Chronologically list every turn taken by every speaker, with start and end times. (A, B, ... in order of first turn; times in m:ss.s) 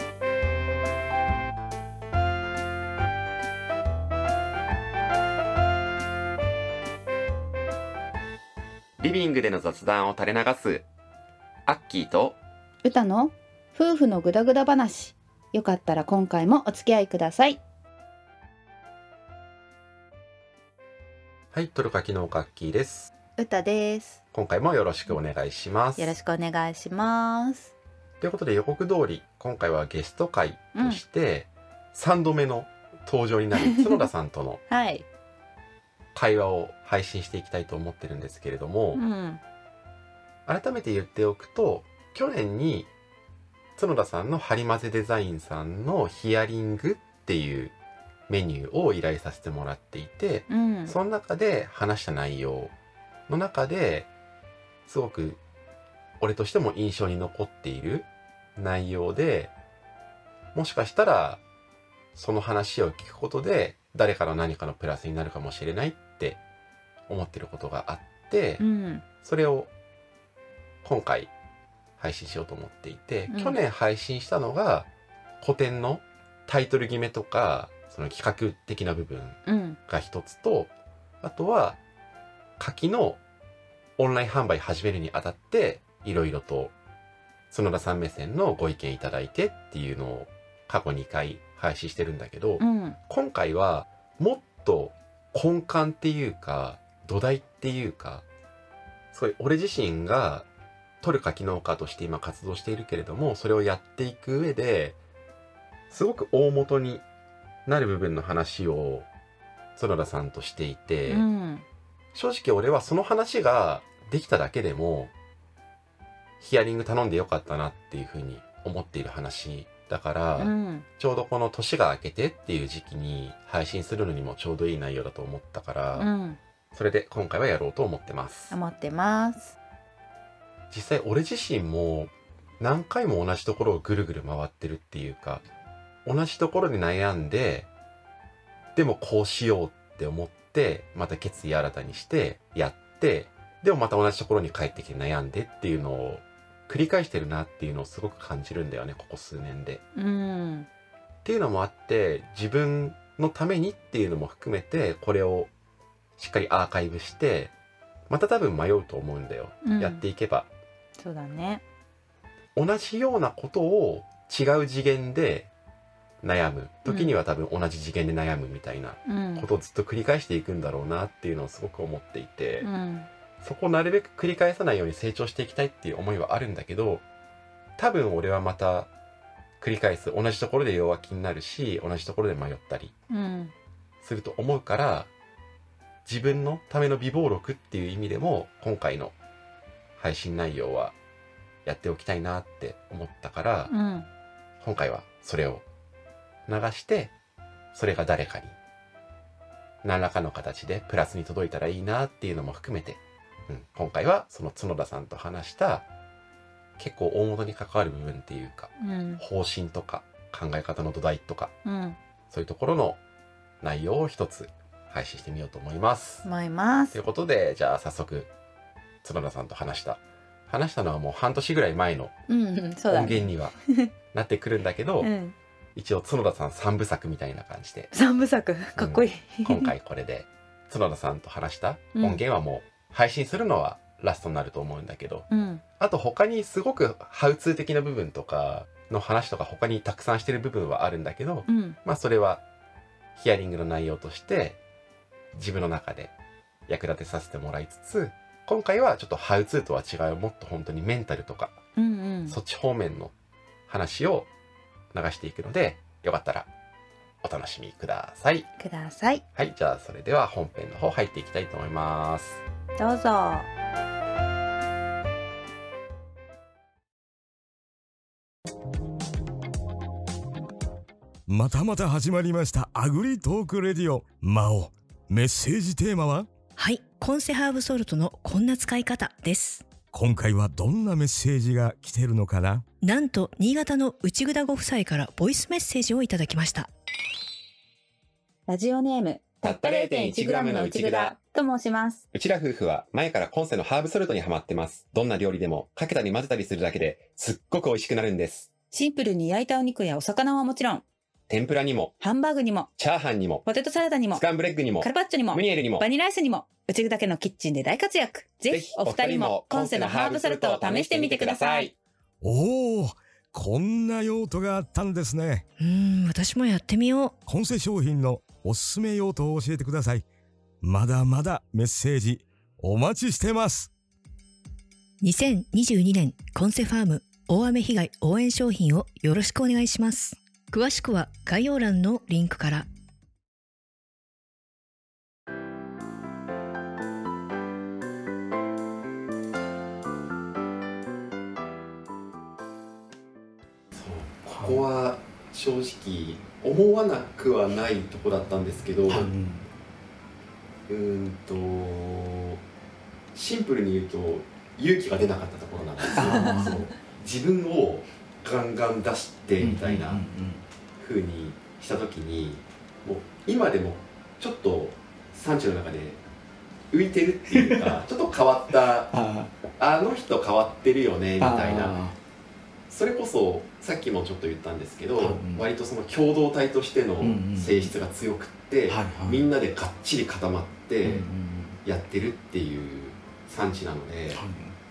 0:09.0-0:10.8 A
0:11.6-0:12.4 A
0:12.8-0:17.6 B
0:21.5-0:23.1 A
0:23.4-0:24.2 B
0:24.3-0:26.2 A
0:26.0-0:27.7 B
0:28.2-0:34.6 A
0:30.7-0:31.0 B
0:34.7-0:35.0 B
0:36.1-0:39.0 A
0:38.9-0:39.4 B
0:40.5-0:42.9 A
0:43.8-0:47.7 A
0:48.3-0:52.7 A
0:50.5-0:50.9 B
0:53.3-0:54.1 A
0:54.8-0:55.4 A
0:56.2-0:59.5 A
1:00.5-1:01.4 A
1:02.1-1:06.4 A
1:07.1-1:08.6 A
1:08.6-1:09.0 B
1:09.2-1:09.7 A
1:10.8-1:11.3 A
1:12.0-1:14.9 A
1:13.3-1:13.6 B
1:15.4-1:20.7 A
1:19.5-1:19.8 B
1:21.2-1:21.8 A
1:22.6-1:23.2 A
1:24.0-1:26.7 A
1:27.5-1:38.2 A
1:32.6-1:33.0 B
1:39.1-1:40.5 A
1:41.0-1:45.0 A
1:45.9-1:47.0 A
1:47.6-1:49.1 A
1:49.8-1:51.2 A
1:51.1-1:51.6 B
1:52.1-1:55.1 A
1:56.4-2:06.1 A
2:00.4-2:00.8 B
2:06.0-2:06.4 B
2:06.7-2:08.5 A
2:08.5-2:09.5 B
2:10.7-2:15.4 A
2:16.0-2:17.7 A
2:18.8-2:29.8 A
2:30.0-2:30.7 B
2:31.2-2:35.5 A
2:36.2-2:37.5 A
2:38.1-2:40.5 A
2:39.6-2:40.0 B
2:41.0-2:41.6 B
2:42.5-2:45.5 A
2:46.2-2:52.7 A
2:46.8-2:47.1 B
2:49.1-2:49.5 B
2:52.6-2:53.1 B
2:53.4-2:57.0 A
2:57.8-2:58.9 A
2:59.6-3:02.9 A
3:03.1-3:03.5 B
3:04.0-3:05.1 A
3:06.0-3:09.1 A
3:10.0-3:10.9 A
3:11.6-3:13.7 A
3:13.7-3:14.1 B
3:14.6-3:15.6 A
3:16.5-3:17.1 A
3:17.7-3:18.6 A
3:19.8-3:25.8 A
3:26.8-3:31.5 A
3:28.8-3:29.2 B
3:31.6-3:32.0 B
3:32.3-3:33.0 A
3:33.6-3:36.2 A
3:36.2-3:37.0 B
3:36.9-3:38.3 A
3:39.0-3:42.1 A
3:42.3-3:43.9 B
3:42.9-3:43.6 A
3:44.1-3:45.1 A
3:45.0-3:45.3 B
3:45.7-3:47.9 A
3:47.9-3:49.7 B
3:48.8-3:55.2 A
3:51.9-3:52.2 B
3:55.3-3:55.6 B
3:55.8-4:02.4 A
4:01.5-4:01.8 B
4:03.1-4:04.6 A
4:05.3-4:06.1 A
4:06.7-4:11.6 A
4:11.8-4:12.4 B
4:12.3-4:13.1 A
4:13.7-4:14.3 A
4:14.9-4:16.5 A
4:17.2-4:18.5 A
4:18.6-4:19.2 B
4:19.3-4:22.4 A
4:22.8-4:23.5 B
4:31.3-4:36.3 C
4:36.6-4:39.6 D
4:39.9-4:42.7 C
4:42.8-4:46.7 D
4:48.5-4:52.0 B
4:49.4-4:51.2 A
4:52.1-4:58.5 A
4:58.7-5:00.8 B
5:01.3-5:01.9 A
5:02.0-5:02.7 B
5:02.8-5:03.4 A
5:03.4-5:04.2 B
5:04.1-5:05.9 A
5:04.8-5:11.7 B
5:08.5-5:11.7 A
5:12.2-5:15.5 C
5:15.6-5:17.2 D
5:17.2-5:20.0 C
5:20.6-5:23.7 C
5:25.0-5:32.6 D
5:43.7-5:49.1 A
5:44.2-5:44.6 E
5:48.9-5:49.5 E
5:50.7-5:52.4 A
5:53.1-6:00.0 A
5:56.0-5:56.6 E
5:59.4-6:00.4 E
6:00.8-6:06.0 A
6:06.7-6:09.0 A
6:07.3-6:07.8 E
6:08.9-6:09.3 E
6:09.6-6:11.8 A
6:11.2-6:12.0 E
6:12.7-6:21.0 A
6:15.0-6:15.4 E
6:17.0-6:17.7 E
6:18.7-6:19.3 E
6:20.8-6:21.6 E
6:21.6-6:24.2 A
6:24.1-6:24.6 E